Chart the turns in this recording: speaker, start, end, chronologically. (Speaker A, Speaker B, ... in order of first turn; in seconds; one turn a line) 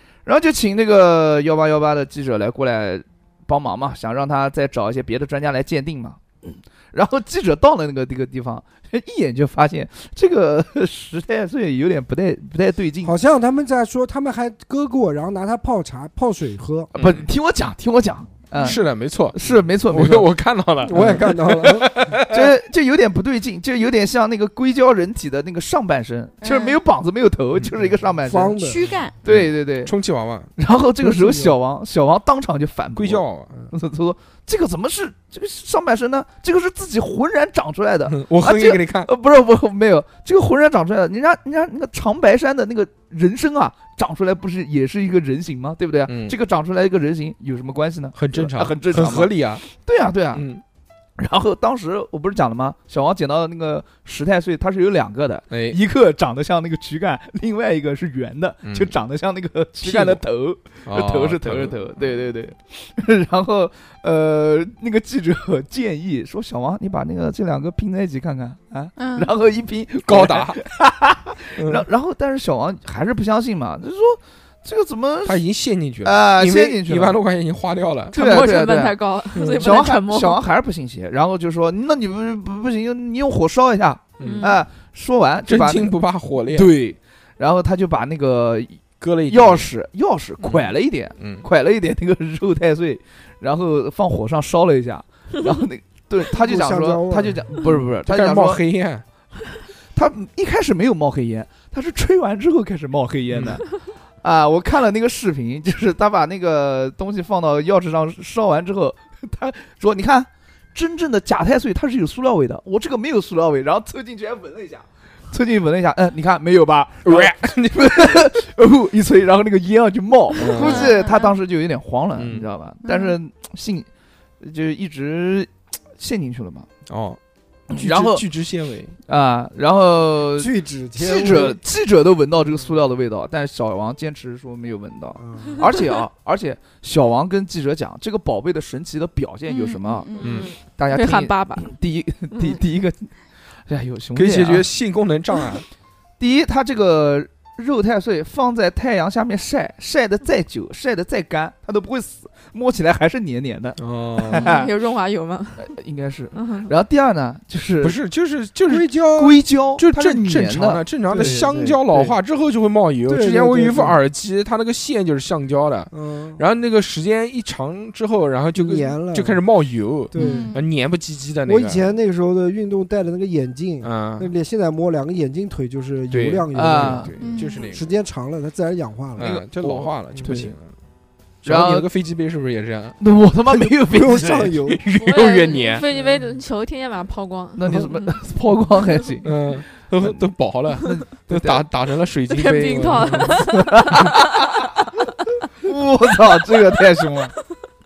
Speaker A: 0.2-13.1
Speaker B: 13.0-16.9
Speaker A: 16.9-20.3
Speaker C: 17.0-17.3
Speaker C: 18.6-22.5
Speaker B: 20.9-22.1
Speaker A: 20.9-21.2
Speaker A: 22.3-28.6
Speaker D: 26.4-26.8
Speaker B: 28.2-28.9
Speaker D: 28.6-29.1
Speaker A: 29.2-29.9
Speaker C: 29.2-30.5
Speaker A: 30.6-50.5
Speaker B: 31.0-31.5
Speaker C: 33.0-33.5
Speaker C: 38.1-39.1
Speaker C: 46.1-46.4
Speaker C: 48.2-49.7
Speaker C: 50.3-50.6
Speaker A: 51.2-75.4
Speaker C: 55.5-55.8
Speaker C: 58.6-58.9
Speaker C: 59.8-60.2
Speaker C: 60.9-61.8
Speaker D: 69.0-69.3
Speaker C: 70.1-70.6
Speaker C: 71.6-71.9
Speaker C: 75.2-78.2
Speaker A: 76.0-77.2
Speaker E: 78.1-80.4
Speaker A: 78.1-86.0
Speaker C: 79.3-79.8
Speaker C: 84.2-84.5
Speaker E: 84.2-84.6
Speaker C: 85.5-86.7
Speaker A: 86.5-98.6
Speaker C: 89.0-89.7
Speaker C: 90.4-91.5
Speaker B: 96.3-97.5
Speaker C: 98.1-99.0
Speaker A: 99.9-103.7
Speaker C: 103.3-103.6
Speaker A: 104.2-123.9
Speaker C: 117.0-118.3
Speaker C: 120.4-121.0
Speaker D: 120.6-121.3
Speaker C: 122.2-122.5
Speaker D: 122.8-123.2
Speaker A: 124.4-126.7
Speaker C: 126.9-127.2
Speaker A: 127.7-128.2
Speaker C: 127.7-129.0
Speaker A: 129.1-143.1
Speaker B: 130.4-131.6
Speaker B: 135.2-135.6
Speaker D: 139.5-140.5
Speaker E: 140.2-141.7
Speaker C: 140.2-140.5
Speaker A: 143.7-144.7
Speaker C: 144.2-145.7
Speaker A: 146.2-154.7
Speaker C: 153.8-154.6
Speaker E: 154.3-155.7
Speaker A: 155.6-158.0
Speaker E: 156.3-156.7
Speaker C: 157.8-171.9
Speaker B: 158.7-159.1
Speaker A: 159.2-162.2
Speaker B: 161.1-161.5
Speaker B: 163.1-164.0
Speaker B: 165.9-166.4
Speaker B: 168.6-169.4
Speaker B: 170.1-170.5
Speaker D: 170.2-170.6
Speaker B: 171.5-179.4
Speaker C: 173.8-174.3
Speaker C: 176.1-177.9
Speaker A: 176.5-177.1
Speaker D: 177.2-177.7
Speaker C: 179.2-180.7
Speaker A: 179.2-180.5
Speaker B: 180.1-180.5
Speaker C: 181.4-183.0
Speaker A: 181.4-181.9
Speaker A: 183.0-184.6
Speaker B: 183.6-184.9
Speaker C: 184.7-185.8
Speaker E: 184.9-188.1
Speaker A: 187.6-189.3
Speaker C: 189.2-193.4
Speaker A: 190.8-191.6
Speaker E: 192.3-194.4
Speaker A: 192.6-194.7
Speaker A: 195.6-197.3